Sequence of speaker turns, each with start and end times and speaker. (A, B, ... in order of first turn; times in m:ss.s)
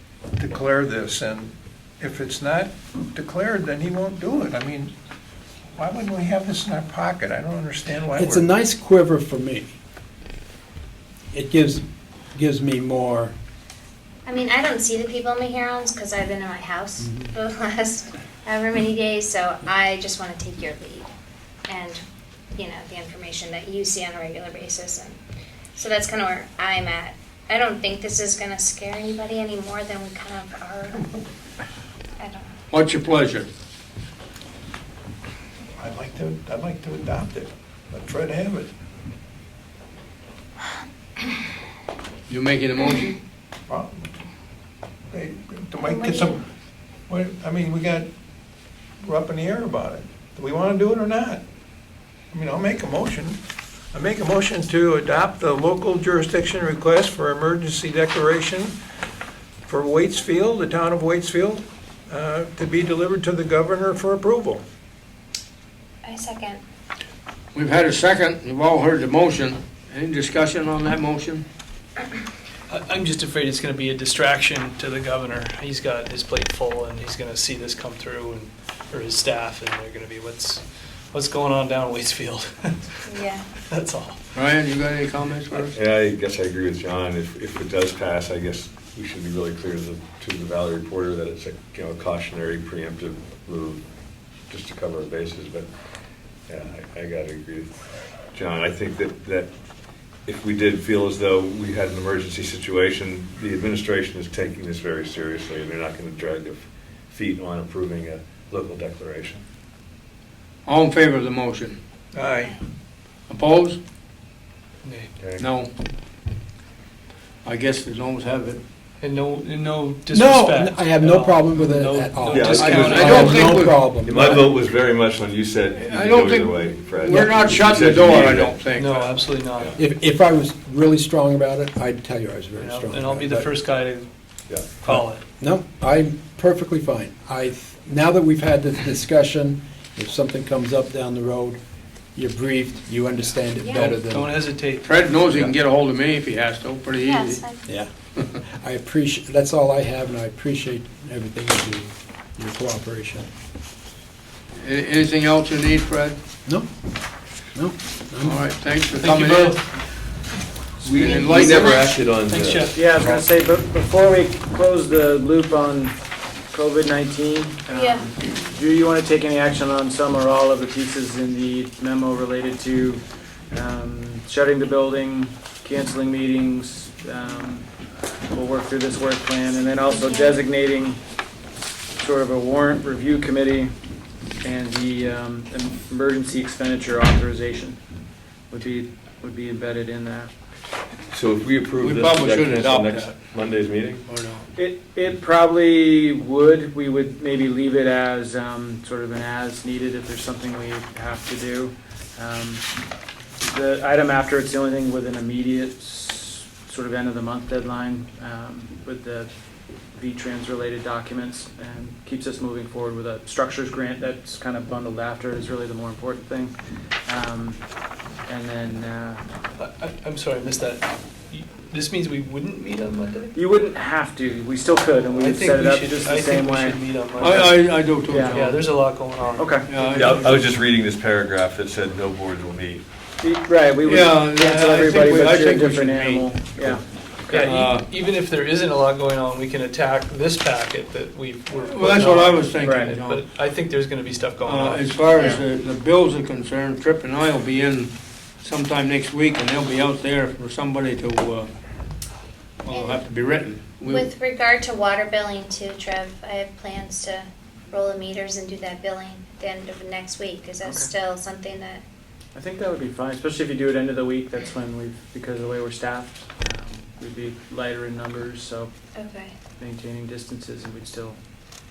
0:00.4-0:04.9 A
0:05.8-0:08.5 A
0:08.2-0:09.7 B
0:11.3-0:13.3 B
0:14.3-0:21.1 C
0:17.0-0:17.3 B
0:21.7-0:22.0 C
0:22.6-0:25.2 C
0:25.8-0:31.1 C
0:32.2-0:32.5 C
0:32.7-0:33.5 D
0:35.8-0:38.7 A
0:42.3-0:43.2 D
0:43.7-0:44.1 A
0:45.1-0:46.4 A
0:45.8-0:46.4 C
0:47.1-0:48.1 A
0:49.0-0:51.4 A
0:52.3-0:53.4 A
0:53.9-0:58.8 A
0:59.7-1:04.6 A
1:06.0-1:06.6 C
1:07.5-1:11.4 D
1:12.7-1:23.0 E
1:23.1-1:23.4 C
1:23.7-1:24.2 E
1:24.3-1:25.8 D
1:25.7-1:33.8 F
1:34.5-1:35.7 F
1:36.5-1:37.7 F
1:38.3-1:39.5 F
1:40.3-1:49.4 F
1:50.6-1:51.8 D
1:52.1-1:52.6 A
1:53.3-1:53.8 D
1:54.8-1:55.1 E
1:55.2-1:55.5 F
1:55.4-1:55.7 D
1:57.4-1:58.6 D
1:59.0-2:03.6 E
2:00.1-2:04.4 B
2:02.3-2:03.4 F
2:02.8-2:04.4 D
2:04.0-2:08.6 F
2:05.7-2:09.2 D
2:07.1-2:07.4 B
2:08.7-2:09.8 E
2:09.8-2:13.5 B
2:12.6-2:14.1 E
2:14.5-2:14.8 F
2:14.8-2:15.2 E
2:14.9-2:21.6 B
2:22.2-2:24.4 B
2:23.6-2:25.0 E
2:24.8-2:27.4 D
2:25.3-2:25.6 B
2:27.0-2:27.6 C
2:28.4-2:33.3 B
2:34.6-2:36.2 D
2:37.6-2:38.4 B
2:38.2-2:39.6 D
2:38.9-2:40.3 E
2:40.8-2:43.2 F
2:40.9-2:42.9 E
2:41.0-2:41.7 D
2:42.7-2:46.0 G
2:46.5-2:57.7 G
2:47.7-2:48.1 C
2:58.3-3:01.0 G
2:59.7-3:00.4 C
3:02.0-3:03.7 G
3:04.4-3:07.8 G
3:08.5-3:10.3 G
3:11.1-3:14.0 F
3:11.8-3:13.2 D
3:14.1-3:14.5 D
3:14.6-3:22.6 G
3:23.4-3:29.3 G
3:29.9-3:36.5 G
3:37.1-3:37.6 G
3:38.2-3:39.2 G
3:39.6-3:43.4 E
3:43.3-3:46.8 G
3:45.1-3:50.4 E
3:47.2-3:48.6 D
3:48.1-3:48.4 G
3:49.4-3:49.7 G
3:49.7-3:50.4 D
3:49.9-3:52.8 F
3:53.2-3:57.5 G
3:53.8-3:56.7 D
3:57.3-4:05.4 E
3:57.4-3:57.9 D
4:01.6-4:03.2 D
4:02.6-4:03.0 G
4:04.4-4:11.5 D
4:05.2-4:05.4 C
4:12.6-4:14.1 D
4:12.7-4:13.0 C
4:13.8-4:21.8 C
4:20.6-4:20.9 G
4:22.3-4:28.7 G
4:29.0-4:29.3 C
4:29.6-4:31.2 G